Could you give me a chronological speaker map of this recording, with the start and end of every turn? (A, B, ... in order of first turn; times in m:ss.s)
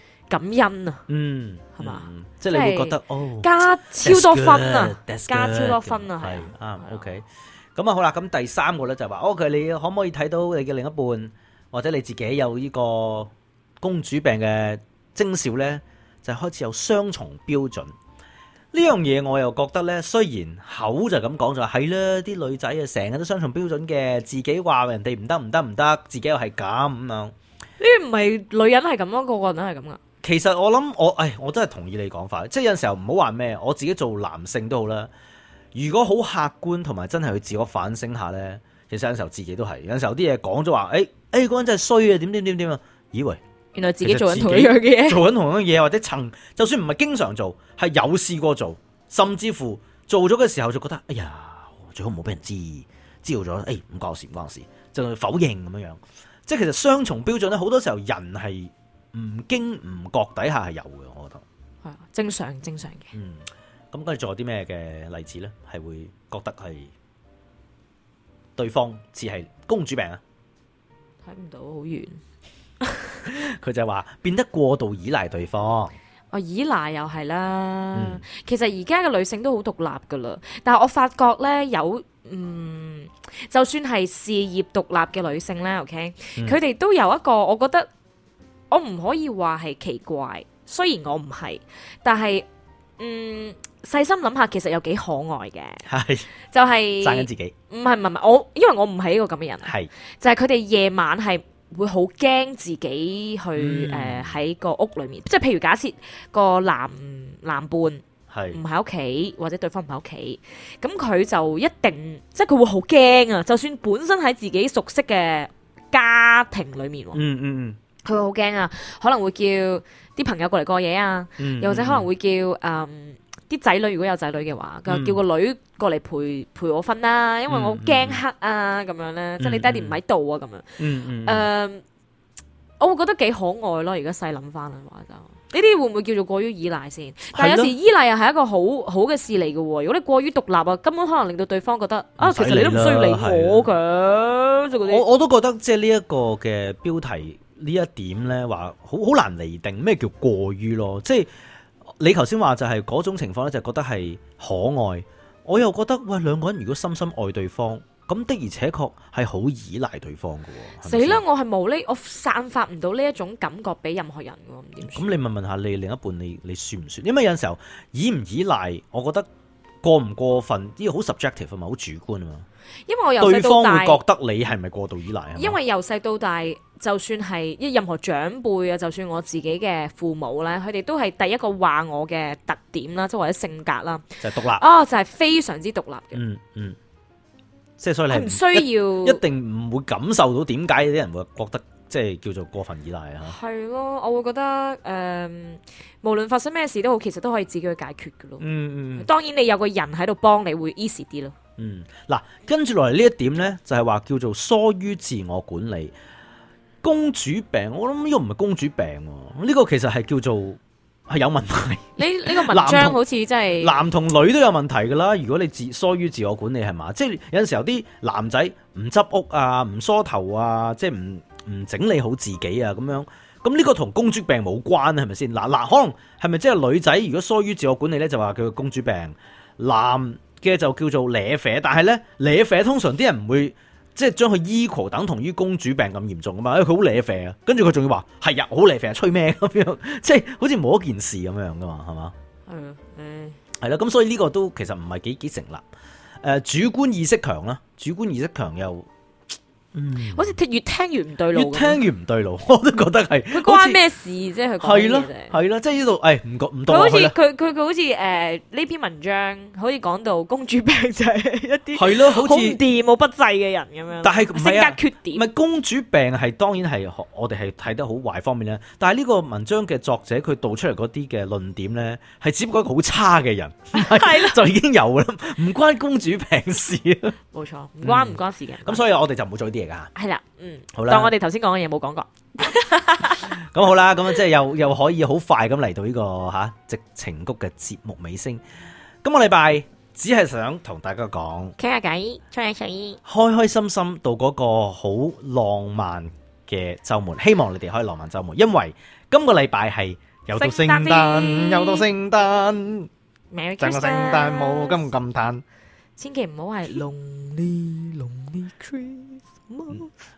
0:00.3-0:01.0 A
0:01.1-0:03.5 B
0:01.8-0:07.1 A
0:04.0-0:17.9 B
0:18.7-0:27.3 B
0:27.8-0:30.0 A
0:30.2-0:35.1 B
0:35.7-0:43.4 B
0:43.7-0:45.2 A
0:44.0-1:01.4 B
1:01.8-1:03.1 A
1:03.1-1:06.9 B
1:08.6-1:10.2 B
1:11.2-1:12.2 A
1:12.8-1:13.2 A
1:13.2-1:15.9 B
1:16.3-1:27.9 A
1:17.9-1:18.2 B
1:28.7-1:32.5 A
1:33.0-1:35.8 A
1:35.8-1:36.3 B
1:36.5-1:57.2 A
1:37.0-1:37.5 B
1:39.6-1:39.9 B
1:43.6-1:44.4 B
1:48.3-1:48.6 B
1:57.1-1:57.8 B
1:58.0-2:11.8 A
2:01.4-2:02.1 B
2:04.9-2:05.2 B
2:07.5-2:08.2 B
2:09.4-2:10.0 B
2:10.8-2:11.5 B
2:12.8-2:25.0 A
2:17.3-2:17.7 B
2:22.2-2:23.7 B
2:24.8-2:31.3 B
2:32.0-2:41.2 B
2:40.8-2:45.1 A
2:44.9-2:49.3 B
2:49.8-2:52.4 B
2:52.9-2:54.0 A
2:53.2-2:55.6 B
2:55.4-3:06.2 A
3:04.2-3:04.6 B
3:06.1-3:06.8 B
3:07.8-3:13.4 B
3:08.1-3:09.2 A
3:13.2-3:21.3 A
3:18.4-3:19.1 B
3:21.6-3:25.9 B
3:26.8-3:33.0 B
3:32.0-3:33.8 A
3:33.6-4:02.1 B
4:02.5-4:03.4 A
4:03.6-4:05.6 B
4:06.2-4:08.9 B
4:09.7-4:10.4 B
4:10.1-4:11.8 A
4:11.3-4:13.8 B
4:13.3-4:15.3 A
4:14.6-4:17.1 B
4:16.7-4:25.2 A
4:21.7-4:22.6 B
4:24.0-4:37.2 B
4:33.7-4:34.4 A
4:37.3-4:38.8 A
4:37.8-4:39.9 B
4:39.9-4:43.3 A
4:40.7-4:41.1 B
4:43.3-4:48.4 B
4:49.0-4:51.5 B
4:51.6-4:53.0 A
4:53.0-5:02.9 B
5:00.3-5:01.9 A
5:03.3-5:04.9 A
5:03.6-5:05.4 B
5:06.0-5:09.9 A